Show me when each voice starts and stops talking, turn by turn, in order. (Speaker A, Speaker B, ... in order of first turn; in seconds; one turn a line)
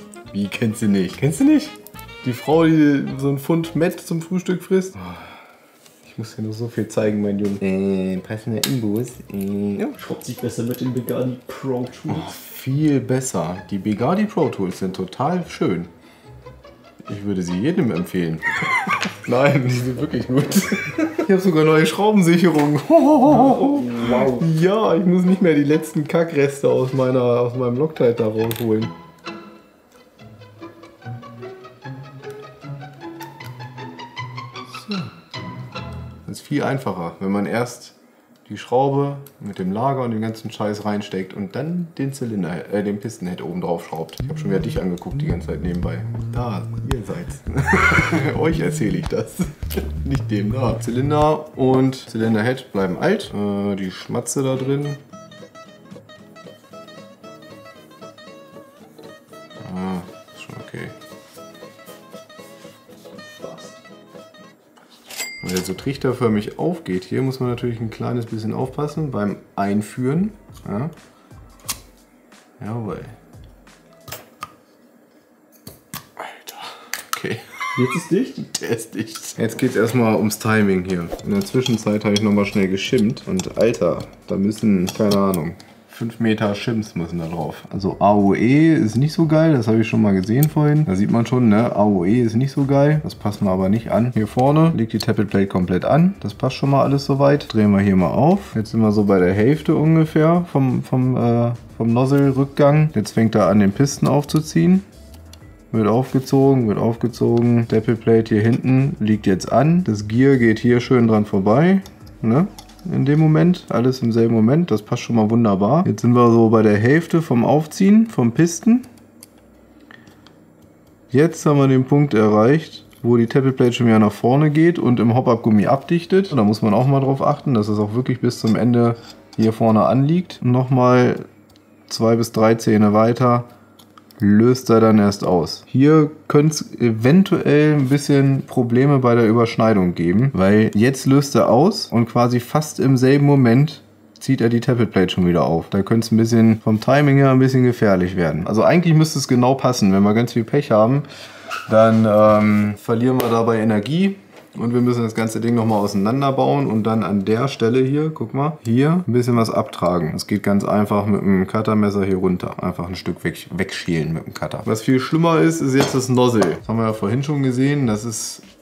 Speaker A: 0.3-5.3
Speaker A: 6.0-10.0
Speaker B: 10.0-12.3
Speaker A: 12.1-15.9
Speaker A: 17.0-28.9
Speaker B: 23.2-24.5
Speaker A: 34.7-35.1
Speaker A: 36.2-37.9
Speaker A: 38.5-55.0
Speaker A: 59.6-60.9
Speaker B: 63.4-63.8
Speaker A: 65.4-70.9
Speaker A: 72.6-73.2
Speaker A: 76.2-77.6
Speaker B: 77.8-78.4
Speaker A: 78.4-104.9
Speaker A: 105.7-118.9
Speaker A: 121.1-131.2
Speaker A: 131.9-133.5
Speaker A: 134.2-151.1
Speaker A: 151.7-168.4